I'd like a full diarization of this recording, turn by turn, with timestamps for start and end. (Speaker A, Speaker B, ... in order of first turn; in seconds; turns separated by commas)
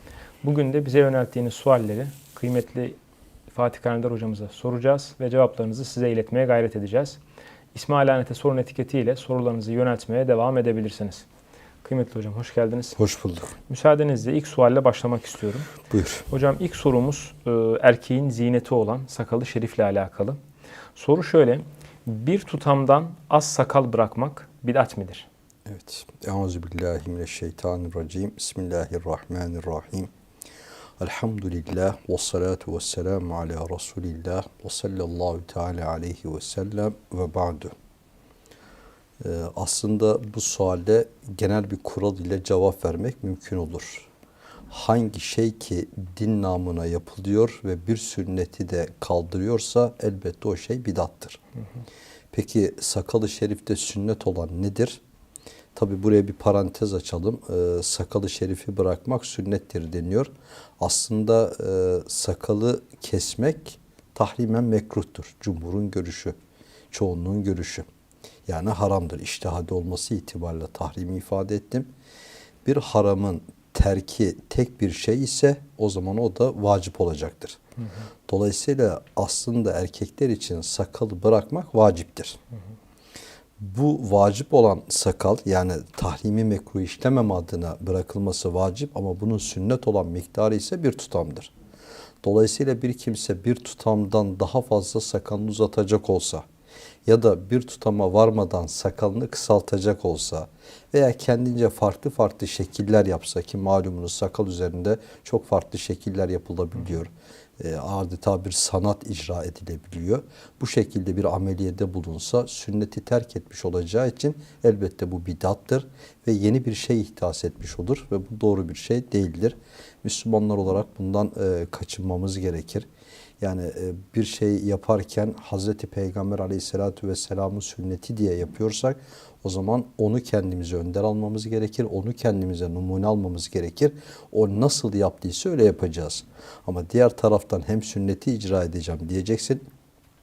Speaker A: 0.4-3.0, Speaker A: 3.5-7.2, Speaker A: 7.7-11.3, Speaker A: 11.8-13.0, Speaker B: 13.0-13.6, Speaker A: 13.7-15.7, Speaker B: 15.9-16.3, Speaker A: 16.3-20.4, Speaker A: 20.9-25.3, Speaker B: 25.7-30.1, Speaker B: 31.0-37.7, Speaker B: 39.2-44.1, Speaker B: 44.7-51.4, Speaker B: 52.3-55.0, Speaker B: 55.8-66.4, Speaker B: 66.9-67.9, Speaker B: 68.5-71.9, Speaker B: 72.7-77.6, Speaker B: 78.3-82.4, Speaker B: 83.6-91.5, Speaker B: 92.2-96.4, Speaker B: 97.1-122.9, Speaker B: 123.4-139.7